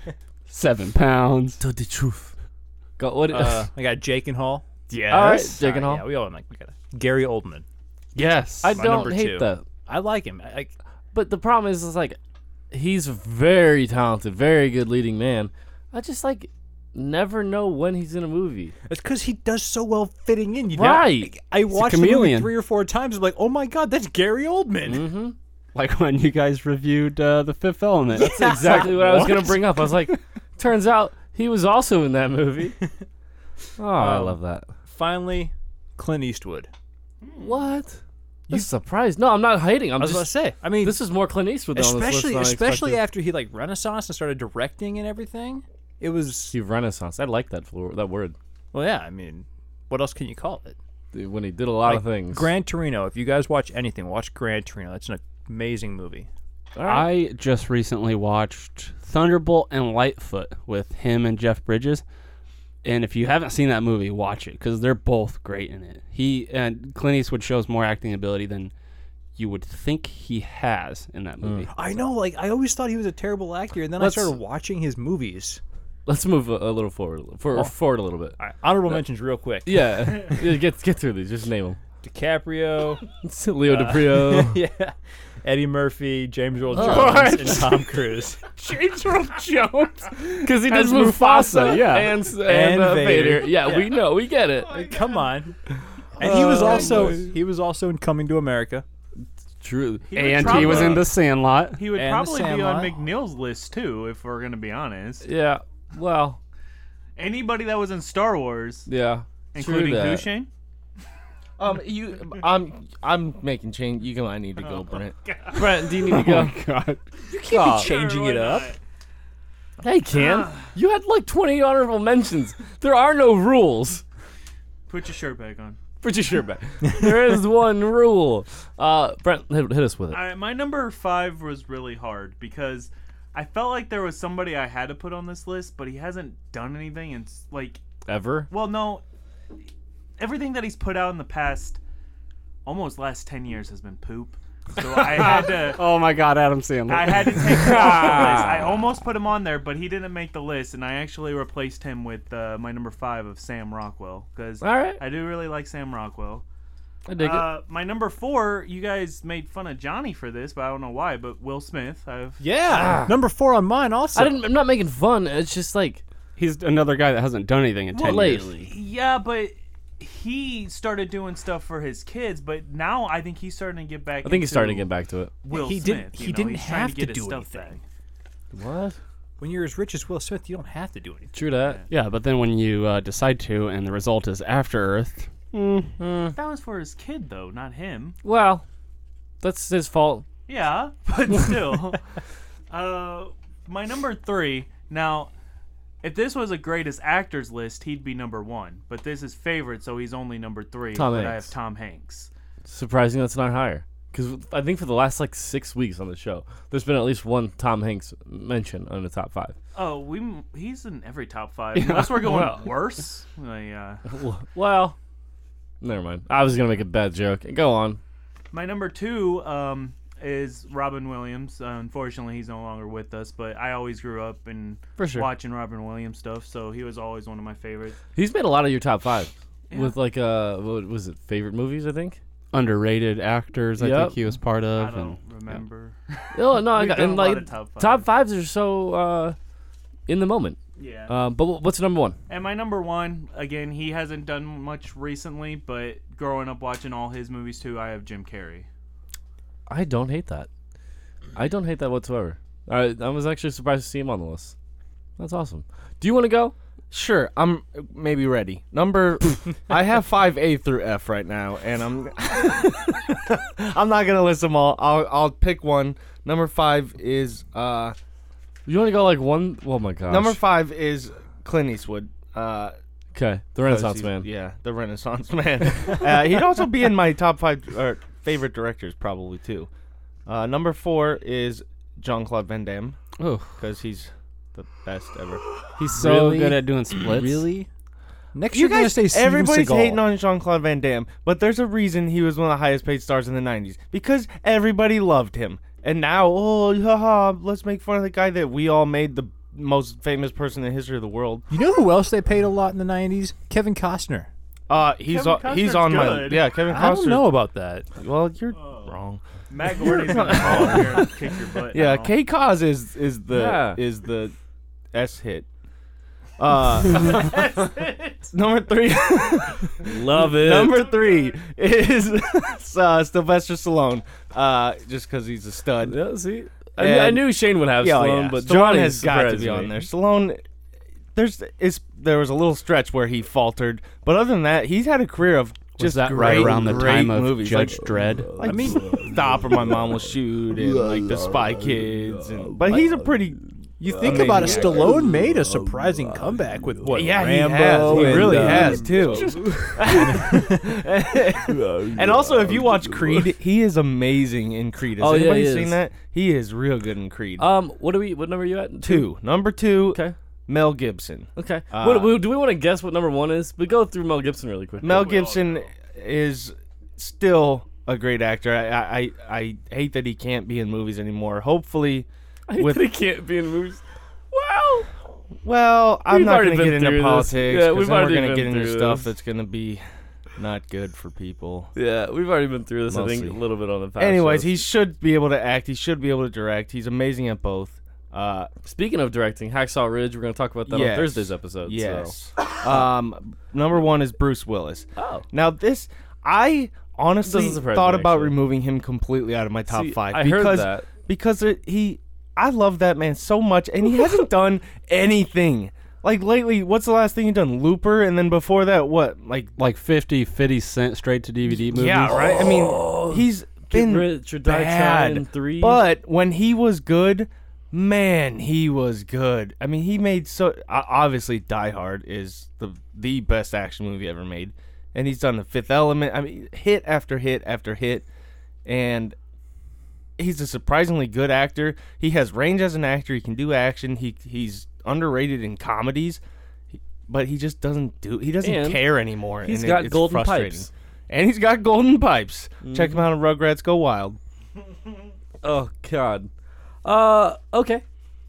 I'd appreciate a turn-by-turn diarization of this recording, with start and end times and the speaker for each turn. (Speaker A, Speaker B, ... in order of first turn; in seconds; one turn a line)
Speaker A: 0.5-1.6
Speaker B: 1.6-2.3
Speaker B: 3.0-3.7
Speaker C: 3.3-7.7
Speaker A: 4.9-5.5
Speaker B: 5.1-6.0
Speaker A: 8.1-8.8
Speaker B: 8.6-9.7
Speaker C: 8.7-10.7
Speaker B: 11.1-12.2
Speaker B: 12.7-18.7
Speaker C: 18.9-25.1
Speaker B: 20.7-21.3
Speaker A: 21.7-22.5
Speaker B: 24.8-25.3
Speaker A: 25.7-30.2
Speaker B: 28.2-32.7
Speaker C: 28.2-29.3
Speaker B: 33.8-34.7
Speaker C: 33.9-36.7
Speaker D: 37.2-37.7
Speaker B: 37.4-43.0
Speaker C: 40.0-41.0
Speaker C: 41.7-46.6
Speaker B: 46.5-48.4
Speaker C: 48.7-50.8
Speaker B: 51.1-52.5
Speaker C: 51.8-56.3
Speaker B: 56.8-57.1
Speaker A: 56.8-62.0
Speaker A: 62.8-68.7
Speaker A: 69.3-71.9
Speaker B: 71.4-71.7
Speaker C: 71.7-75.6
Speaker B: 74.0-74.3
Speaker B: 76.0-78.3
Speaker C: 78.4-80.5
Speaker B: 79.7-81.8
Speaker C: 82.0-83.1
Speaker B: 83.2-84.6
Speaker C: 83.6-88.4
Speaker B: 86.7-87.7
Speaker A: 86.8-87.7
Speaker A: 88.5-92.1
Speaker B: 90.4-94.8
Speaker C: 91.4-91.7
Speaker C: 92.3-93.9
Speaker C: 94.7-95.6
Speaker C: 96.2-98.8
Speaker B: 96.2-97.3
Speaker B: 99.6-101.1
Speaker D: 100.1-101.1
Speaker A: 100.1-101.8
Speaker D: 101.8-105.2
Speaker C: 101.9-103.0
Speaker B: 105.2-106.4
Speaker D: 107.2-108.9
Speaker B: 108.9-110.3
Speaker D: 109.5-110.5
Speaker E: 111.6-115.2
Speaker D: 114.6-115.7
Speaker B: 115.5-116.6
Speaker A: 116.0-117.0
Speaker C: 117.3-118.7
Speaker B: 117.5-117.9
Speaker D: 117.7-118.8
Speaker B: 119.8-124.0
Speaker D: 120.1-120.7
Speaker D: 124.9-125.8
Speaker B: 126.0-130.2
Speaker D: 130.1-137.8
Speaker B: 138.1-138.5
Speaker D: 138.5-139.0
Speaker D: 140.2-141.8
Speaker D: 142.6-145.8
Speaker A: 145.1-148.2
Speaker D: 146.9-156.4
Speaker B: 147.5-148.8
Speaker B: 154.6-155.0
Speaker B: 157.1-157.4
Speaker D: 157.2-162.4
Speaker C: 162.4-164.4
Speaker B: 162.7-163.2
Speaker B: 164.1-166.0
Speaker A: 166.4-168.5
Speaker D: 167.9-174.9
Speaker B: 168.0-168.7
Speaker B: 174.2-175.3
Speaker D: 175.4-177.8
Speaker C: 175.5-177.8
Speaker B: 178.5-179.0
Speaker C: 179.4-181.3
Speaker B: 181.3-181.8
Speaker A: 181.9-185.9
Speaker B: 186.0-186.3
Speaker D: 186.3-188.2
Speaker B: 188.2-188.6
Speaker B: 189.4-190.2
Speaker D: 190.5-192.0
Speaker D: 192.7-195.3
Speaker D: 196.0-202.3
Speaker B: 200.9-201.5
Speaker B: 202.7-209.5
Speaker D: 209.7-214.0
Speaker A: 211.8-212.5
Speaker B: 212.2-212.5
Speaker B: 214.1-215.0
Speaker B: 215.8-218.0
Speaker D: 218.5-228.0
Speaker B: 225.0-225.3
Speaker B: 228.2-232.2
Speaker D: 229.7-229.9
Speaker A: 232.5-235.2
Speaker B: 233.8-234.2
Speaker D: 234.7-238.1
Speaker B: 236.3-239.3
Speaker B: 240.1-242.2
Speaker D: 240.8-241.1
Speaker D: 242.3-248.7
Speaker B: 249.7-250.5
Speaker B: 251.3-254.5
Speaker B: 255.2-256.5
Speaker E: 256.9-267.9
Speaker B: 268.6-270.4
Speaker E: 270.1-272.7
Speaker B: 273.1-274.2
Speaker E: 273.6-279.7
Speaker E: 280.2-283.0
Speaker A: 283.2-283.5
Speaker E: 283.6-285.4
Speaker A: 285.8-287.4
Speaker B: 286.0-286.5
Speaker C: 286.0-287.7
Speaker C: 288.3-290.0
Speaker E: 288.5-301.4
Speaker C: 301.5-304.3
Speaker E: 304.7-307.3
Speaker D: 305.1-306.5
Speaker C: 306.7-307.9
Speaker E: 307.9-311.1
Speaker D: 308.6-308.9
Speaker D: 309.5-312.1
Speaker E: 311.7-314.3
Speaker B: 313.3-313.8
Speaker E: 314.9-315.5
Speaker E: 316.4-317.6
Speaker D: 316.9-318.3
Speaker E: 318.3-326.0
Speaker B: 319.8-320.9
Speaker B: 325.8-329.8
Speaker E: 326.8-330.4
Speaker E: 331.1-343.4
Speaker A: 335.8-338.4
Speaker C: 338.4-339.1
Speaker C: 343.8-348.9
Speaker E: 343.9-345.0
Speaker E: 346.9-357.4
Speaker B: 347.9-349.9
Speaker C: 349.9-350.7
Speaker B: 351.7-353.1
Speaker B: 355.0-355.8
Speaker B: 357.4-359.1
Speaker E: 358.8-362.1
Speaker B: 361.4-365.2
Speaker E: 364.8-372.8
Speaker D: 364.8-365.7
Speaker B: 372.5-373.8
Speaker B: 374.3-374.9
Speaker E: 375.4-379.8
Speaker B: 376.1-379.1
Speaker E: 380.4-381.7
Speaker B: 381.8-384.6
Speaker E: 382.9-383.4
Speaker E: 384.0-388.5
Speaker B: 388.6-392.1
Speaker E: 390.7-409.5
Speaker B: 395.0-395.2
Speaker B: 397.2-398.3
Speaker B: 399.7-400.9
Speaker A: 409.6-412.3
Speaker E: 411.7-428.1
Speaker B: 412.3-415.8
Speaker E: 428.6-429.1
Speaker E: 430.2-436.2
Speaker E: 436.7-444.2
Speaker B: 438.4-438.8
Speaker B: 439.4-440.7
Speaker B: 442.6-443.0
Speaker B: 445.4-446.3
Speaker B: 446.8-447.8